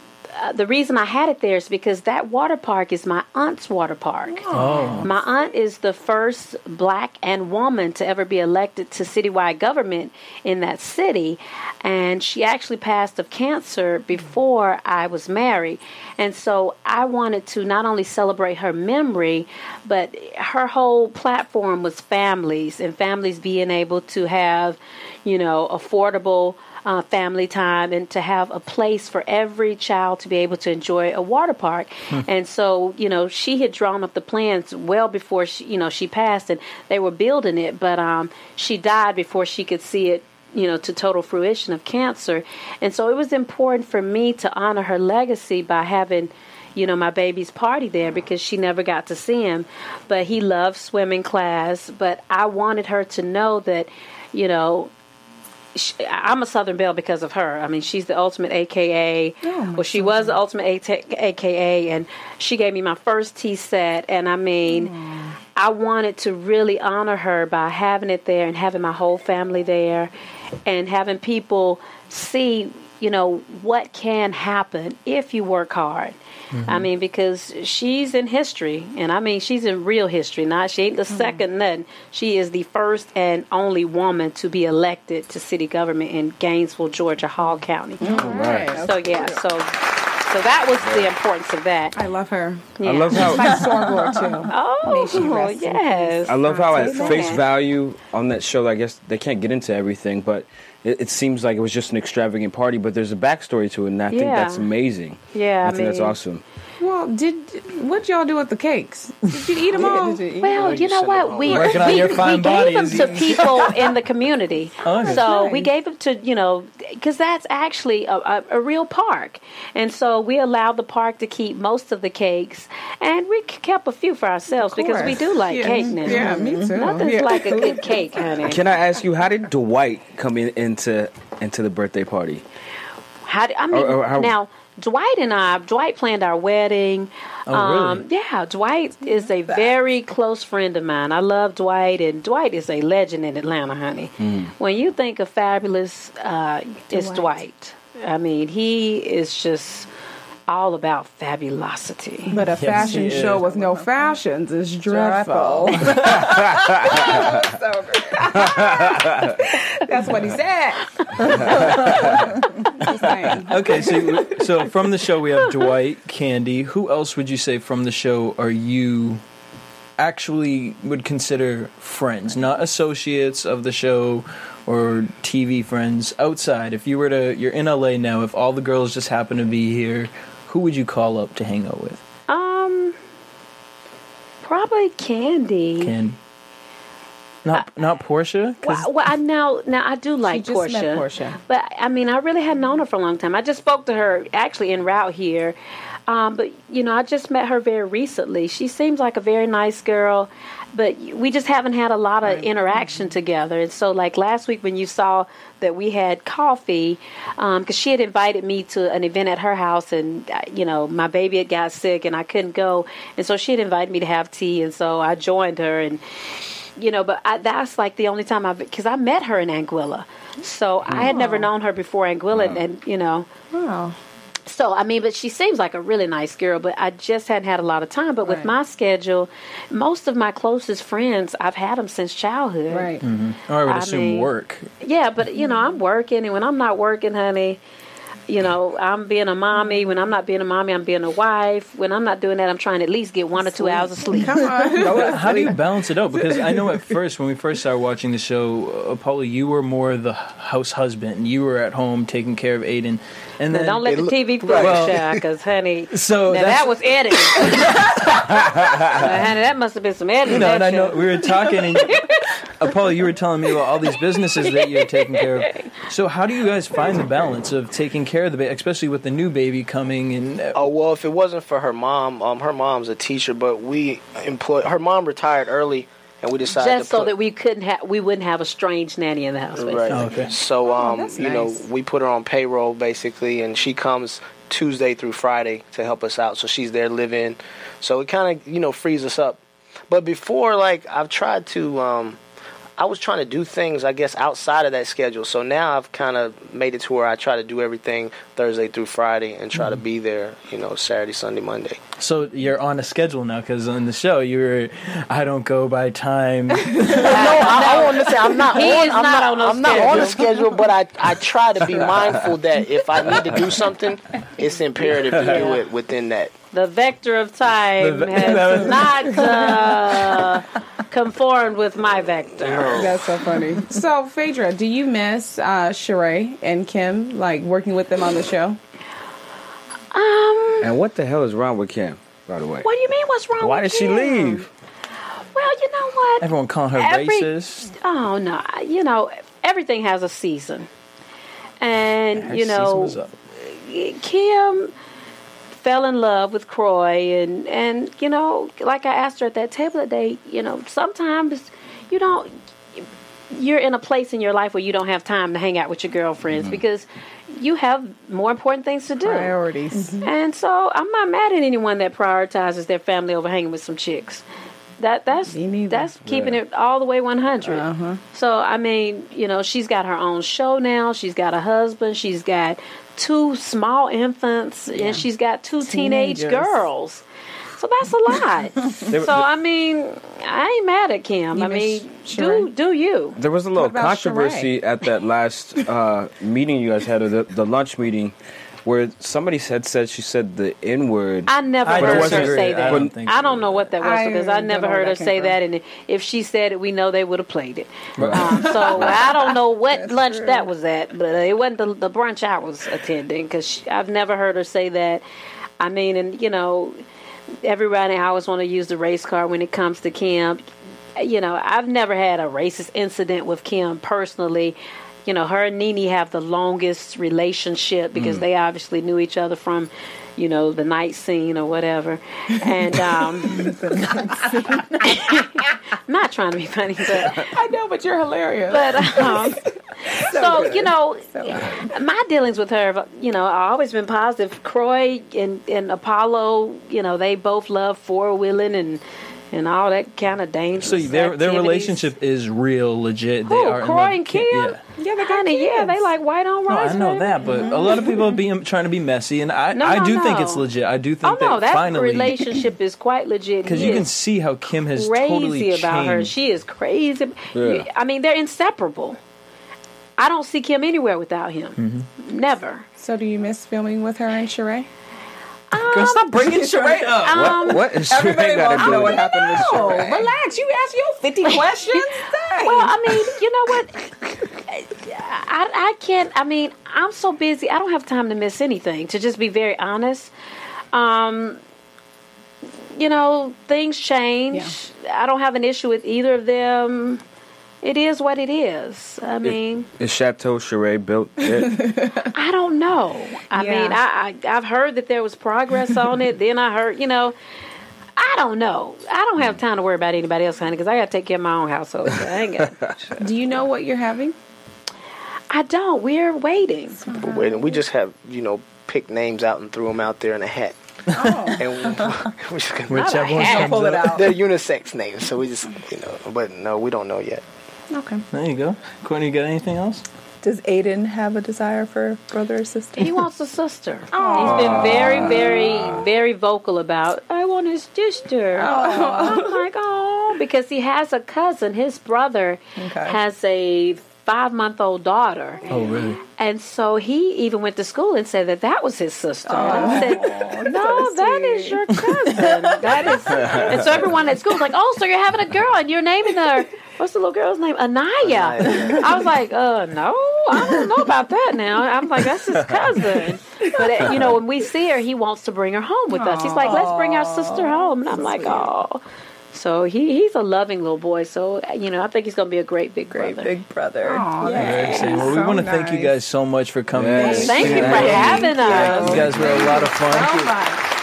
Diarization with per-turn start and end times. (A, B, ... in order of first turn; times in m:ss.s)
0:00.3-0:54.9 A
0:04.3-0:05.1 B
0:04.5-0:05.1 C
0:55.7-1:04.9 A
0:59.4-1:00.4 B
1:04.7-1:05.3 B
1:05.6-1:10.1 A
1:10.6-1:32.0 A
1:16.5-1:16.9 C
1:21.1-1:21.4 B
1:28.0-1:28.8 B
1:28.0-1:29.4 D
1:28.1-1:28.8 E
1:30.8-1:31.1 E
1:31.9-1:37.4 B
1:32.8-1:33.3 A
1:32.8-1:33.8 E
1:34.5-1:37.4 A
1:36.2-1:46.4 E
1:44.1-1:44.7 A
1:45.3-1:46.2 A
1:46.8-1:50.3 B
1:49.7-1:50.6 D
1:50.4-2:08.6 A
1:50.5-1:52.2 F
1:51.4-1:53.7 C
1:54.8-1:55.3 C
1:55.0-1:55.7 B
2:04.6-2:08.2 B
2:06.1-2:06.8 D
2:08.4-2:12.4 E
2:13.2-2:29.9 A
2:13.7-2:14.3 E
2:17.5-2:18.0 C
2:24.2-2:24.5 E
2:26.9-2:27.4 B
2:30.5-2:32.4 A
2:32.3-2:36.1 B
2:32.3-2:33.7 D
2:32.6-2:33.5 C
2:34.8-2:38.3 D
2:35.7-2:36.4 C
2:36.1-2:37.1 E
2:36.8-2:44.3 B
2:38.4-2:39.4 E
2:41.3-2:41.8 E
2:41.4-2:42.3 C
2:43.4-2:49.2 C
2:50.0-3:02.0 C
3:02.3-3:03.0 A
3:04.4-3:05.9 A
3:05.8-3:06.2 C
3:07.4-3:08.9 C
3:08.6-3:15.6 A
3:10.2-3:11.4 B
3:16.1-3:36.0 A
3:22.2-3:23.1 B
3:36.8-3:43.3 A
3:41.0-3:41.5 B
3:43.5-3:44.0 B
3:44.4-3:52.9 A
3:48.2-3:48.5 B
3:52.7-3:53.0 B
3:53.0-3:54.7 C
3:53.7-3:54.3 A
3:54.8-3:57.6 A
3:58.3-4:04.3 A
4:03.6-4:05.2 B
4:04.1-4:05.6 D
4:04.8-4:15.0 C
4:13.5-4:18.0 A
4:13.8-4:15.2 F
4:15.9-4:16.8 C
4:17.3-4:18.4 C
4:18.9-4:22.3 A
4:20.3-4:22.0 C
4:22.6-4:30.6 C
4:24.4-4:25.7 A
4:30.5-4:37.1 F
4:36.6-4:40.1 A
4:39.5-4:52.2 F
4:39.9-4:40.3 C
4:40.6-4:41.6 B
4:52.8-5:01.8 F
4:59.5-4:59.8 C
5:02.0-5:07.7 C
5:06.9-5:16.3 F
5:07.0-5:10.2 A
5:15.0-5:15.6 A
5:16.5-5:23.0 A
5:17.8-5:18.7 E
5:18.1-5:19.5 C
5:22.4-5:22.9 F
5:22.7-5:28.6 B
5:29.9-5:30.7 A
5:30.6-5:32.7 E
5:32.6-5:34.5 A
5:33.4-5:34.5 E
5:35.3-5:40.7 A
5:36.2-5:37.7 C
5:41.6-5:44.7 A
5:42.2-5:43.1 C
5:45.6-5:59.3 A
5:59.0-6:00.1 B
6:00.0-6:04.2 A
6:04.8-6:17.0 A
6:05.3-6:05.9 B
6:06.0-6:06.4 E
6:07.4-6:08.0 B
6:14.7-6:15.0 B
6:15.7-6:16.3 B
6:17.6-6:23.2 A
6:18.9-6:19.3 E
6:21.3-6:22.5 B
6:23.2-6:32.9 E
6:23.5-6:24.5 B
6:31.3-6:45.0 A
6:31.6-6:33.7 C
6:33.8-6:35.4 B
6:38.0-6:38.5 C
6:38.6-6:40.5 D
6:45.6-6:46.8 A
6:47.4-6:50.4 A
6:51.0-7:07.3 A
6:58.0-6:58.2 C
7:03.3-7:05.2 D
7:07.3-7:09.4 B
7:08.5-7:18.8 A
7:09.9-7:11.6 D
7:19.3-7:21.9 A
7:20.6-7:24.6 C
7:23.3-7:27.9 A
7:24.8-7:25.9 B
7:26.5-7:32.3 C
7:27.2-7:28.1 B
7:29.5-7:30.5 A
7:31.0-7:33.9 A
7:33.4-7:36.1 C
7:34.7-7:39.0 A
7:37.3-7:37.6 E
7:40.0-7:42.7 A
7:41.6-7:41.9 C
7:42.8-7:44.7 B
7:45.5-7:47.7 A
7:45.6-7:47.6 C
7:46.6-7:47.0 D
7:47.1-7:49.0 E
7:47.8-7:50.1 D
7:48.6-7:52.8 B
7:49.3-7:49.8 A
7:51.2-8:00.1 A
8:00.7-8:01.4 A
8:02.8-8:07.0 A
8:07.6-8:09.7 A
8:09.2-8:11.6 E
8:11.4-8:12.1 B
8:12.1-8:17.1 A
8:13.3-8:13.8 B
8:18.0-8:22.6 A
8:22.6-8:22.9 E
8:23.0-8:24.2 B
8:25.3-8:26.8 A
8:26.8-8:27.6 B
8:26.9-8:30.6 F
8:30.9-8:31.4 B
8:31.3-8:37.2 F
8:32.7-8:34.0 C
8:32.7-8:33.5 A
8:33.2-8:34.1 D
8:37.7-8:38.0 B
8:38.1-8:39.8 C
8:40.2-8:43.0 D
8:42.8-8:55.4 A
8:43.9-8:44.8 B
8:44.2-8:45.6 E
8:48.4-8:49.3 B
8:48.4-8:49.3 D
8:52.6-8:53.0 D
8:55.5-8:56.0 C
8:56.2-9:18.8 A
8:59.3-9:00.0 B
8:59.3-9:03.6 D
9:03.2-9:03.9 E
9:08.0-9:09.1 F
9:15.9-9:16.6 B
9:16.3-9:18.5 D
9:19.3-9:23.3 A
9:22.9-9:25.0 D
9:23.8-9:25.9 B
9:24.2-9:25.1 A
9:24.4-9:30.4 C
9:26.7-9:29.5 E
9:26.9-9:29.2 D
9:27.2-9:29.2 A
9:28.8-9:30.6 B